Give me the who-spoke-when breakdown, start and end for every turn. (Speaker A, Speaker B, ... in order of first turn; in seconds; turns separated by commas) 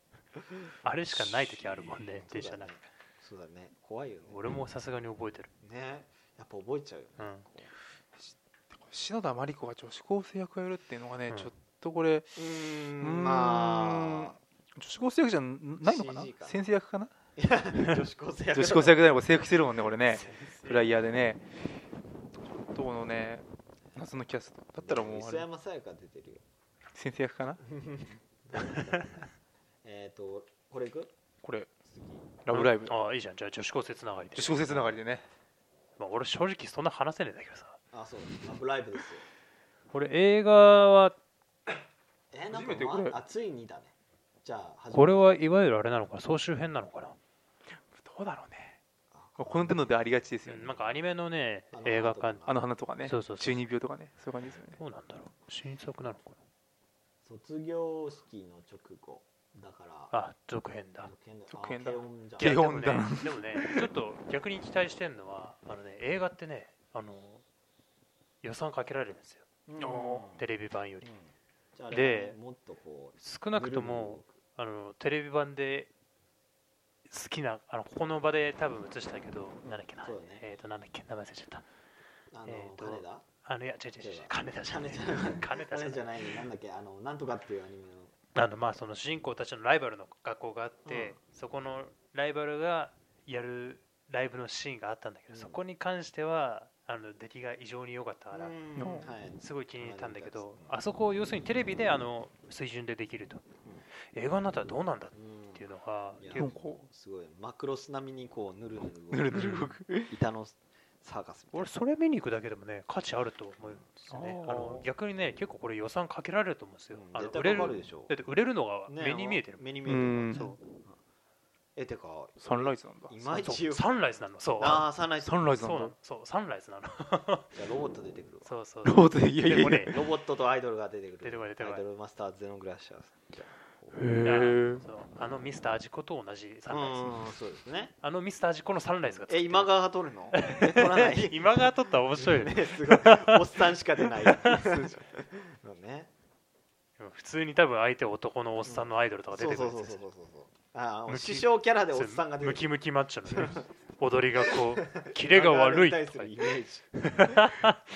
Speaker A: 0.4-0.7, Speaker B: 0.8-2.8, Speaker A: 1.7-4.4, Speaker B: 4.3-5.5, Speaker A: 5.6-7.7, Speaker C: 8.2-12.4, Speaker A: 12.4-14.4, Speaker C: 13.0-17.1, Speaker A: 15.8-16.6, Speaker A: 17.4-19.2, Speaker C: 18.5-21.5, Speaker A: 20.1-20.8, Speaker B: 20.1-20.9, Speaker C: 22.4-25.5, Speaker A: 24.8-26.4, Speaker C: 26.9-27.6, Speaker A: 27.6-29.3, Speaker B: 28.6-29.0, Speaker A: 29.8-31.1, Speaker C: 31.4-31.7, Speaker A: 31.9-32.3, Speaker C: 32.4-33.0, Speaker B: 32.5-34.8, Speaker C: 34.4-35.2, Speaker A: 34.7-35.0, Speaker B: 36.0-37.8, Speaker A: 37.9-39.3, Speaker B: 39.9-41.2, Speaker A: 42.3-43.9, Speaker C: 42.5-43.2, Speaker A: 44.4-45.3, Speaker B: 44.9-47.2, Speaker C: 47.8-48.8, Speaker A: 49.1-49.9, Speaker C: 49.4-50.8, Speaker B: 50.5-52.5, Speaker A: 51.7-52.6, Speaker C: 52.5-54.8, Speaker B: 53.0-53.6, Speaker B: 54.7-56.4, Speaker A: 57.2-60.1, Speaker B: 60.1-61.1, Speaker A: 61.0-62.6, Speaker C: 61.5-63.9, Speaker B: 62.4-67.4, Speaker B: 68.4-69.5, Speaker A: 69.7-70.4, Speaker C: 69.8-70.3, Speaker B: 70.3-71.1, Speaker A: 71.0-74.3, Speaker B: 71.9-72.4, Speaker B: 73.2-75.9, Speaker B: 77.1-81.7, Speaker A: 79.7-80.4, Speaker A: 82.3-83.2, Speaker B: 82.5-86.5, Speaker A: 84.0-88.1, Speaker B: 88.3-103.4, Speaker A: 90.9-91.2, Speaker A: 95.3-95.6, Speaker A: 98.3-100.8, Speaker C: 98.8-99.1, Speaker B: 104.1-106.5, Speaker A: 105.1-105.7, Speaker A: 106.2-111.7, Speaker C: 106.3-106.9, Speaker C: 109.1-110.1, Speaker B: 109.3-109.7, Speaker B: 111.5-119.6, Speaker C: 114.1-114.9, Speaker A: 116.9-118.1, Speaker A: 118.9-121.0, Speaker C: 119.8-120.5, Speaker B: 120.3-120.6, Speaker A: 121.8-123.9, Speaker C: 122.4-123.1, Speaker B: 123.2-124.9, Speaker A: 124.6-125.4, Speaker C: 125.2-126.0, Speaker B: 125.6-127.5, Speaker A: 127.5-128.5, Speaker B: 128.4-130.0, Speaker C: 128.8-130.0, Speaker A: 129.7-134.0, Speaker B: 131.2-131.8, Speaker C: 133.9-134.8, Speaker B: 134.2-137.3, Speaker A: 136.7-137.9, Speaker B: 138.0-139.7, Speaker A: 139.3-146.1, Speaker B: 140.3-143.4, Speaker B: 144.2-144.6, Speaker C: 144.5-144.9, Speaker B: 147.0-150.0, Speaker A: 148.7-152.6, Speaker B: 151.1-156.4, Speaker A: 153.3-153.7, Speaker A: 154.4-157.5, Speaker B: 157.0-157.8